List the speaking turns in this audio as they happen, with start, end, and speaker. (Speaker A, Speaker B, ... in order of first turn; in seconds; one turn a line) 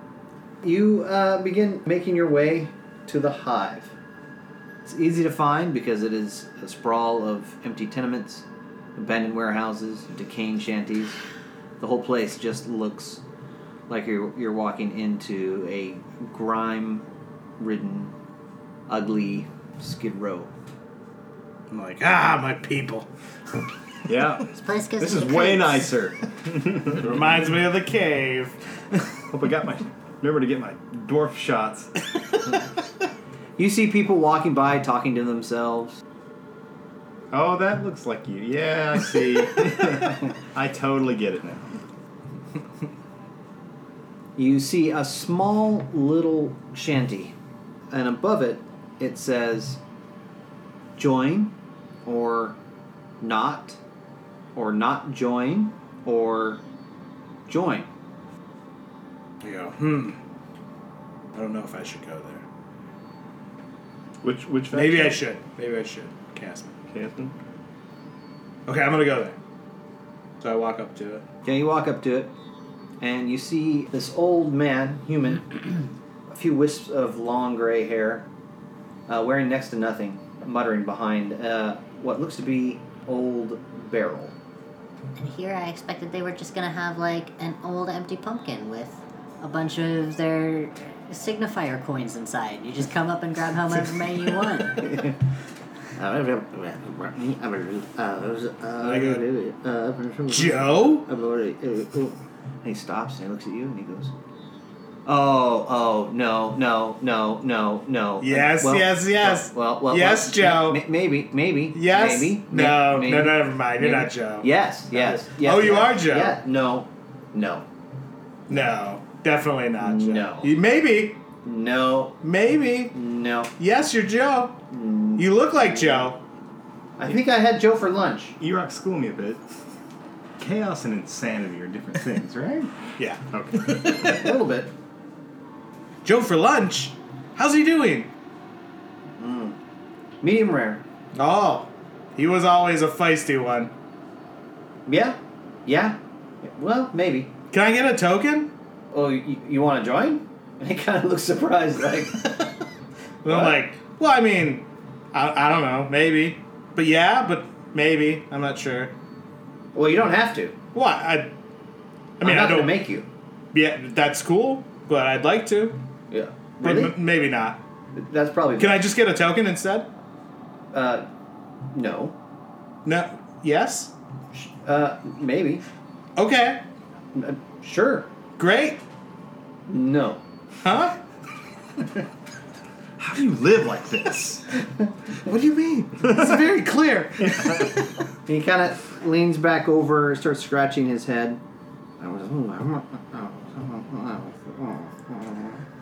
Speaker A: 0.6-3.9
Speaker A: 4.8-11.2
Speaker A: 11.8-13.2
Speaker A: 13.9-17.0
Speaker A: 17.6-18.1
Speaker A: 18.9-20.5
Speaker B: 21.7-23.1
Speaker C: 24.1-27.5
Speaker D: 24.5-25.9
Speaker B: 27.0-28.6
Speaker C: 29.3-31.9
Speaker A: 33.6-36.0
Speaker C: 37.3-41.7
Speaker A: 44.4-47.3
Speaker A: 47.9-49.8
Speaker A: 51.0-52.6
Speaker A: 53.2-53.8
Speaker A: 54.5-56.6
Speaker A: 57.5-57.9
Speaker B: 59.4-60.2
Speaker B: 61.3-62.4
Speaker C: 64.2-65.2
Speaker B: 64.7-66.7
Speaker C: 66.9-67.3
Speaker B: 68.7-69.3
Speaker B: 70.4-71.2
Speaker A: 71.4-72.3
Speaker A: 73.0-78.3
Speaker A: 79.1-84.3
Speaker D: 85.1-94.9
Speaker A: 94.8-95.1
Speaker A: 96.0-104.1
Speaker B: 98.8-99.2
Speaker B: 100.3-101.1
Speaker A: 105.0-117.7
Speaker B: 108.2-110.8
Speaker B: 111.7-116.4
Speaker B: 118.5-121.2
Speaker A: 119.8-120.5
Speaker A: 121.4-122.2
Speaker B: 122.2-122.9
Speaker A: 122.9-123.5
Speaker B: 123.6-124.6
Speaker A: 124.7-126.1
Speaker B: 125.2-126.2
Speaker A: 127.0-128.3
Speaker C: 128.4-129.4
Speaker C: 130.4-132.7
Speaker B: 133.0-134.3
Speaker C: 133.3-134.1
Speaker A: 134.0-134.7
Speaker B: 136.0-138.1
Speaker A: 139.2-139.6
Speaker A: 140.2-140.8
Speaker B: 141.1-143.7
Speaker A: 144.8-147.3
Speaker B: 147.5-148.5
Speaker A: 148.9-152.3
Speaker B: 153.2-158.9
Speaker A: 153.2-153.6
Speaker A: 159.7-160.5
Speaker B: 160.7-161.3
Speaker B: 162.2-162.8
Speaker A: 162.2-163.1
Speaker B: 163.5-165.8
Speaker A: 166.1-166.9
Speaker B: 166.6-167.6
Speaker A: 167.9-168.9
Speaker B: 168.6-169.9
Speaker A: 170.7-171.1
Speaker A: 171.7-172.1
Speaker B: 172.8-173.9
Speaker A: 174.3-175.6
Speaker B: 176.2-176.6
Speaker A: 177.1-178.1
Speaker B: 178.4-178.8
Speaker A: 179.7-180.2
Speaker B: 180.6-181.0
Speaker C: 183.0-184.4
Speaker B: 185.2-187.7
Speaker A: 188.2-191.4
Speaker A: 192.0-195.6